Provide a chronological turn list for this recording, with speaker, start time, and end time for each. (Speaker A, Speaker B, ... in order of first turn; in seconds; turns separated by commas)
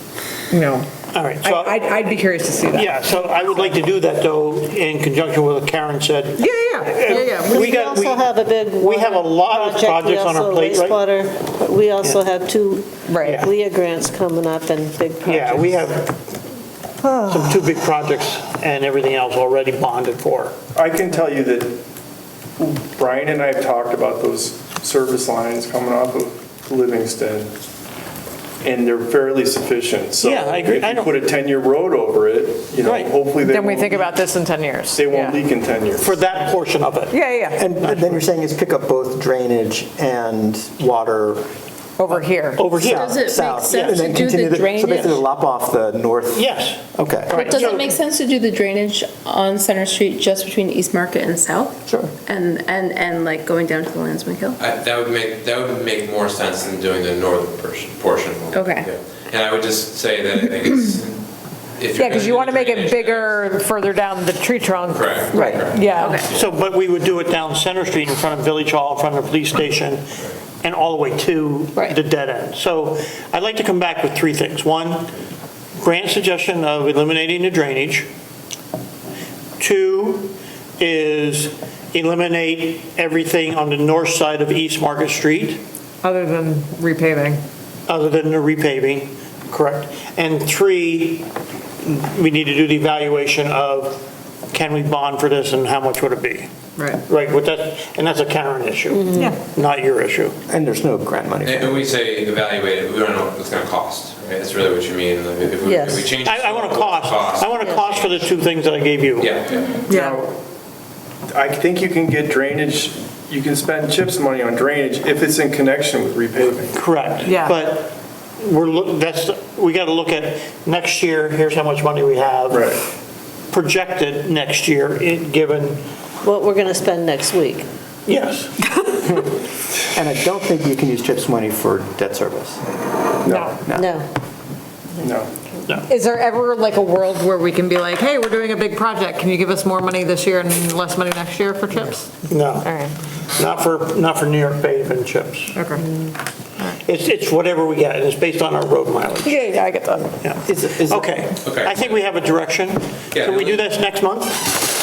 Speaker A: 0.5-0.9, Speaker B: 1.1-1.9, Speaker A: 1.4-3.7, Speaker B: 2.7-11.2, Speaker A: 6.4-7.7, Speaker C: 7.1-15.9, Speaker A: 13.1-13.4, Speaker B: 13.2-13.5, Speaker B: 15.2-16.1, Speaker A: 17.0-17.5, Speaker B: 17.1-20.6, Speaker D: 20.7-21.8, Speaker D: 22.6-27.5, Speaker D: 28.6-34.2, Speaker B: 30.2-31.2, Speaker B: 32.8-33.1, Speaker A: 33.4-35.4, Speaker D: 34.9-36.1, Speaker B: 36.0-37.3, Speaker A: 37.1-37.6, Speaker E: 37.6-41.4, Speaker B: 37.8-38.2, Speaker A: 42.0-42.6, Speaker B: 42.5-43.2, Speaker F: 42.7-45.2, Speaker E: 42.8-47.4, Speaker B: 46.3-47.9, Speaker F: 47.3-54.6, Speaker E: 51.9-52.1, Speaker G: 54.6-61.2, Speaker F: 58.5-58.9, Speaker G: 61.8-63.5, Speaker A: 61.9-66.2, Speaker G: 64.9-66.4, Speaker F: 65.3-66.3, Speaker B: 66.3-70.0, Speaker B: 70.6-75.1, Speaker B: 75.8-78.1, Speaker B: 79.6-85.6, Speaker A: 86.0-87.4, Speaker B: 87.9-91.3, Speaker B: 91.8-96.5, Speaker A: 96.8-97.0, Speaker B: 97.1-100.3, Speaker C: 98.9-99.3, Speaker E: 100.5-101.8, Speaker G: 101.4-108.3, Speaker C: 105.6-106.1, Speaker B: 106.2-109.4, Speaker G: 109.2-109.8, Speaker D: 109.8-110.4, Speaker A: 109.9-110.2, Speaker D: 111.3-116.8, Speaker B: 116.7-122.8, Speaker A: 117.2-117.6, Speaker D: 122.5-122.8, Speaker B: 123.5-125.8, Speaker C: 126.2-127.7, Speaker B: 128.1-128.5, Speaker E: 129.9-132.6, Speaker D: 133.2-133.5, Speaker A: 133.3-133.6, Speaker E: 133.3-133.9, Speaker C: 133.7-134.1, Speaker D: 135.0-135.3, Speaker A: 135.8-142.9, Speaker B: 142.3-142.7, Speaker B: 143.3-145.6, Speaker A: 145.5-145.8, Speaker B: 146.8-149.5, Speaker A: 149.2-150.2, Speaker B: 150.2-154.6, Speaker E: 150.4-151.2, Speaker G: 151.4-152.0, Speaker G: 153.1-153.7